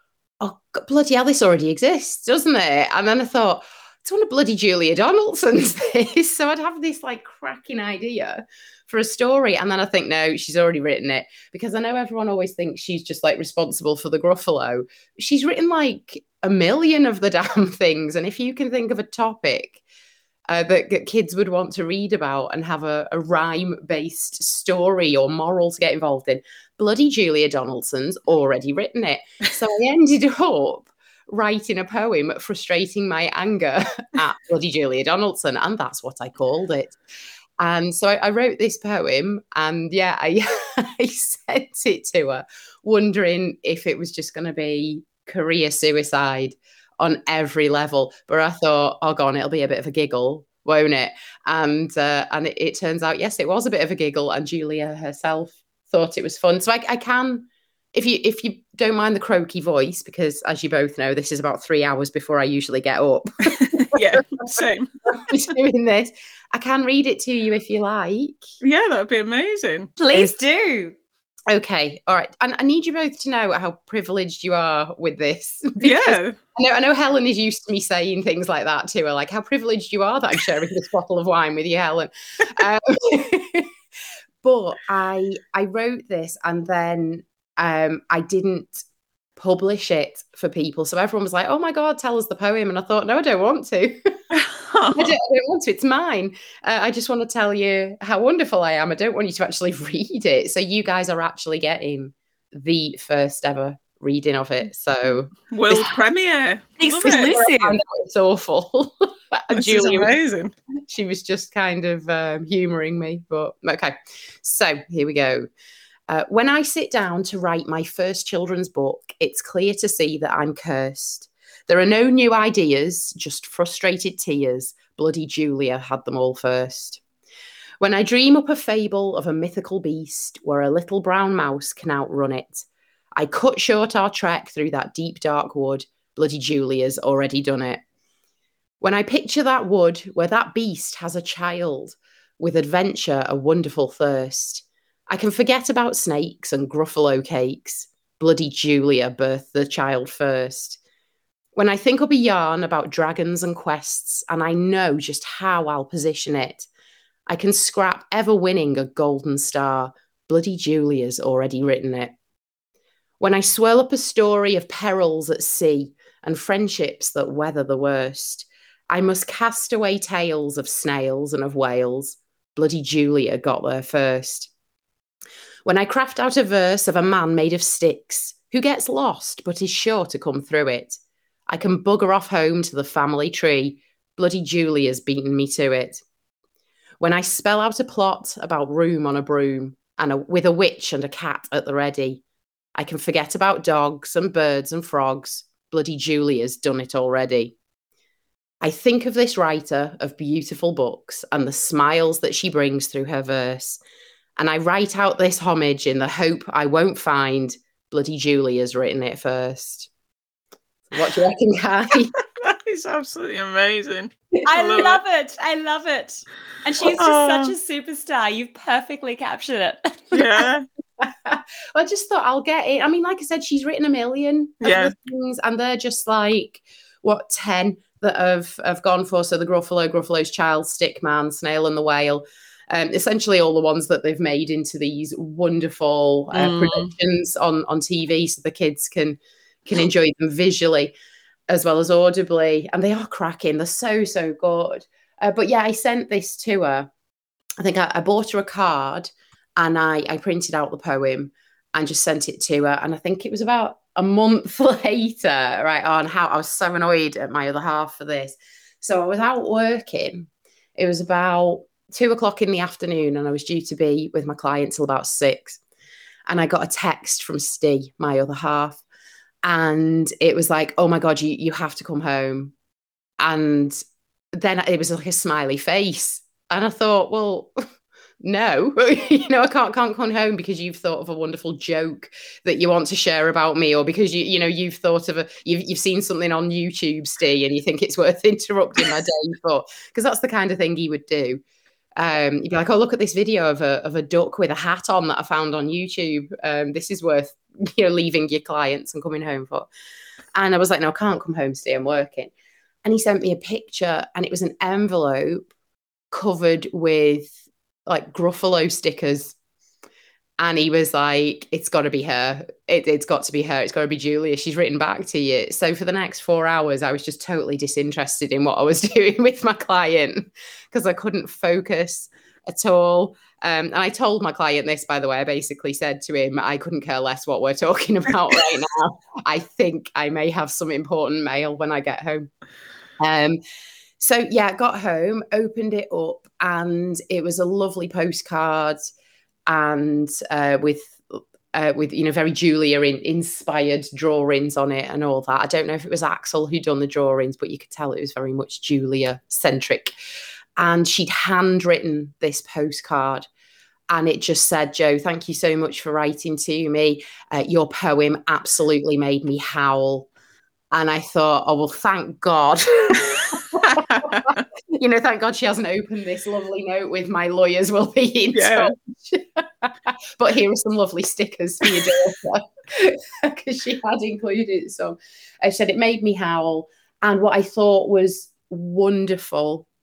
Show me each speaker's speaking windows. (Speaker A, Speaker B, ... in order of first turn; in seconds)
Speaker A: 0.4-19.8, 20.5-37.0, 37.6-68.4, 71.5-83.7, 84.4-88.8, 89.4-94.2, 94.9-105.9, 107.0-110.1, 110.9-115.5, 116.1-127.0, 127.8-137.8, 138.8-150.8, 151.6-156.7, 157.3-162.1, 163.2-174.5, 175.6-186.0, 187.0-192.2, 192.8-197.5, 198.6-203.8, 204.4-209.9, 210.9-212.2, 221.0-240.9, 241.5-246.9, 247.6-265.6, 266.3-268.8, 269.4-272.5, 273.2-273.8, 274.3-277.5, 278.2-291.4, 292.0-299.7, 300.3-302.3, 302.8-305.5, 306.1-307.3, 307.9-309.3, 310.4-332.3, 333.0-333.4, 334.0-338.9, 339.5-349.9, 350.6-353.3, 353.9-360.1, 360.7-379.6
Speaker B: 63.6-64.9, 68.6-69.9, 75.8-76.4, 94.3-95.1, 105.5-107.4, 109.5-110.5, 212.3-215.0, 216.8-217.5, 220.1-220.7, 224.6-224.9, 236.3-236.9, 363.7-364.4, 368.3-368.7
Speaker C: 70.0-71.0, 106.8-107.8, 214.4-220.4